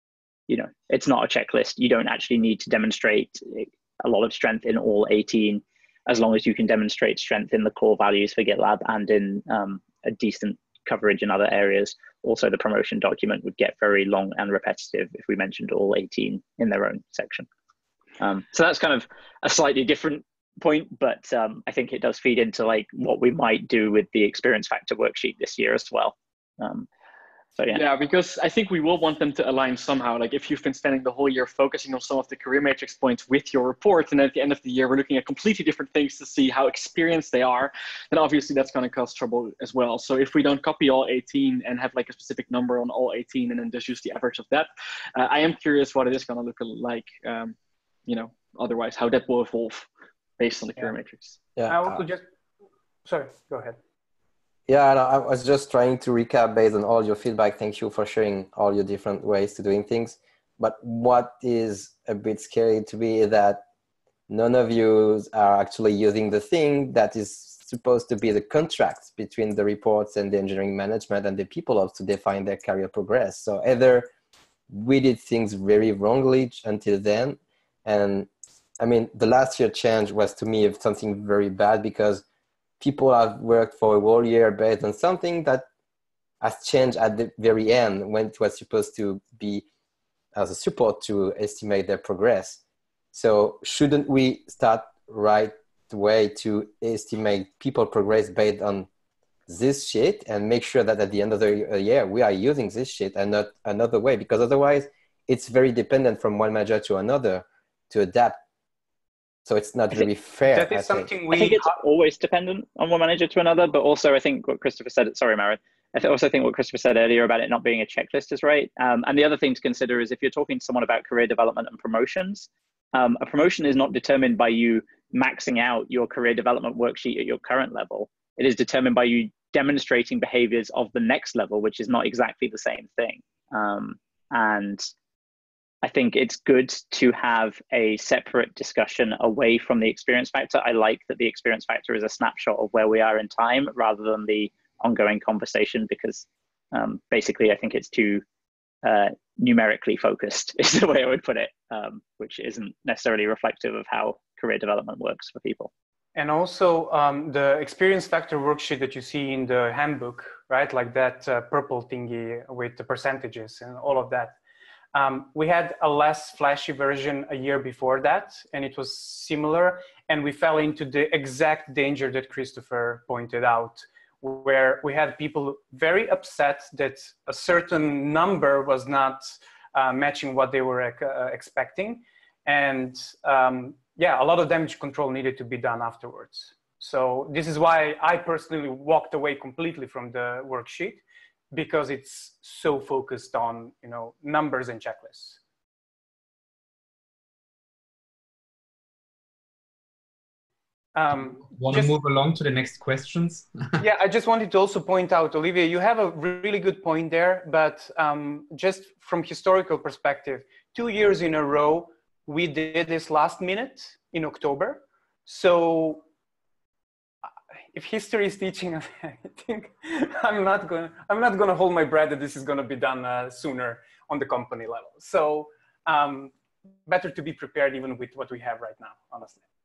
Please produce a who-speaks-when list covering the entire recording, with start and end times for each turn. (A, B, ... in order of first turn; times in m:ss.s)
0:00.5-0:17.5 A
0:18.2-0:26.9 A
0:27.6-0:27.8 A
0:27.7-0:47.6 B
0:48.1-0:49.9 B
0:50.4-0:51.4 B
0:51.6-0:52.0 C
0:51.7-0:52.2 D
0:53.0-0:53.8 D
0:54.7-1:03.6 C
1:04.3-1:14.1 C
1:14.7-1:22.2 C
1:22.8-1:25.6 C
1:26.4-1:29.6 C
1:30.3-1:32.6 C
1:33.1-1:38.9 C
1:39.5-1:48.4 C
1:49.4-1:51.1 C
1:50.5-1:51.8 D
1:51.3-2:14.9 A
2:15.8-2:28.2 A
2:28.8-2:35.7 A
2:36.2-2:44.4 D
2:44.9-3:15.4 D
3:20.9-3:21.9 D
3:21.5-3:23.7 E
3:23.8-3:36.0 D
3:37.7-3:46.3 D
3:46.9-3:49.4 D